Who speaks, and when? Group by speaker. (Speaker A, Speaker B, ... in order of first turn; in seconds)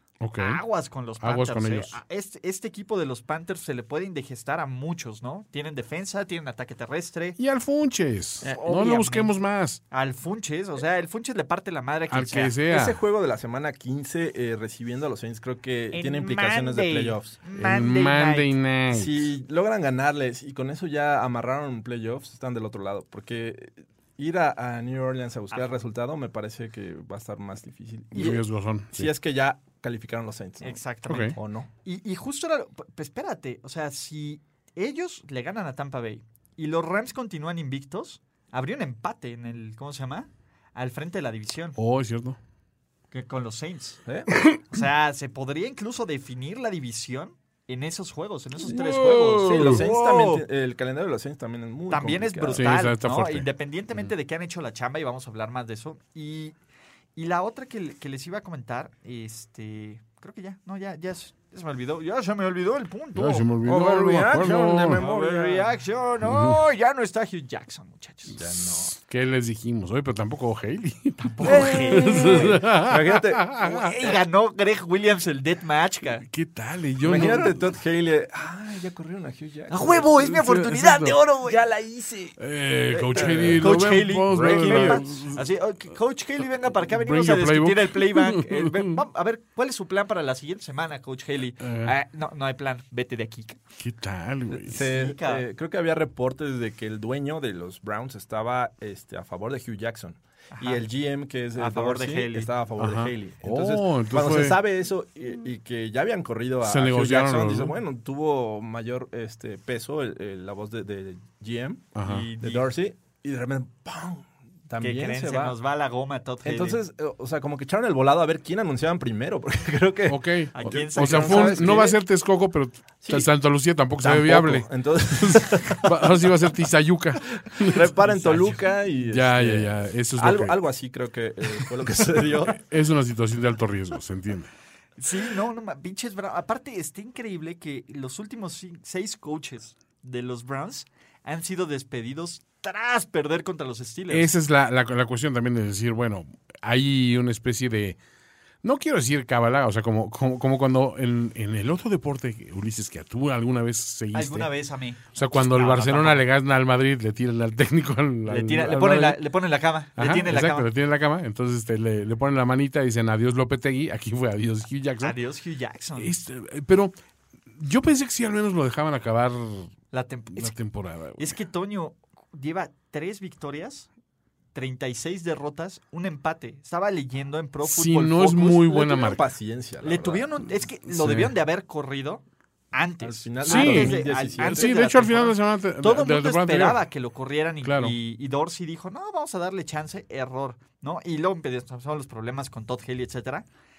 Speaker A: 0.2-0.6, 1.2-2.0, 7.4-9.8, 12.1-13.0, 17.6-19.3, 28.1-29.1, 31.1-31.4, 41.8-42.4, 44.3-44.6, 48.6-49.9, 52.5-53.5, 63.1-65.0, 66.2-66.6, 68.4-73.8, 76.2-77.6, 80.2-81.2, 82.4-85.4, 86.8-89.0, 91.6-91.9, 93.8-94.8, 102.8-104.6, 106.6-107.7, 111.9-112.3, 120.1-127.9, 129.1-130.6, 132.6-134.5, 144.1-148.0, 148.6-154.5, 155.1-159.2, 160.0-165.2, 166.0-166.9, 167.6-169.7, 170.3-171.3, 177.6-179.2, 180.9-181.3, 183.4-186.8, 187.6-187.9
Speaker B: 0.4-7.4, 8.4-9.3, 9.9-12.5, 15.9-18.5, 28.1-28.4, 30.6-41.8, 43.1-44.0, 44.7-50.4, 51.9-56.5, 57.1-63.5, 64.9-68.4, 71.2-72.6, 73.6-76.2, 79.7-81.6, 82.9-93.6, 94.8-95.4, 100.5-100.8, 101.5-102.5, 112.0-112.7, 114.8-116.8, 120.5-121.9, 128.0-128.6, 135.0-144.3, 154.1-156.2, 158.3-160.7, 165.0-166.1, 169.9-170.5, 171.2-173.9, 174.5-179.1, 179.8-193.4
Speaker C: 12.7-17.4, 18.9-30.8, 31.3-31.7, 44.0-44.3, 49.4-52.7, 63.6-65.7, 68.4-68.9, 71.4-73.6, 77.0-80.1, 81.4-82.4, 83.1-85.1, 94.5-115.5, 116.4-122.0, 123.0-123.3, 124.0-126.2, 127.6-132.6, 178.8-180.3, 183.0-184.8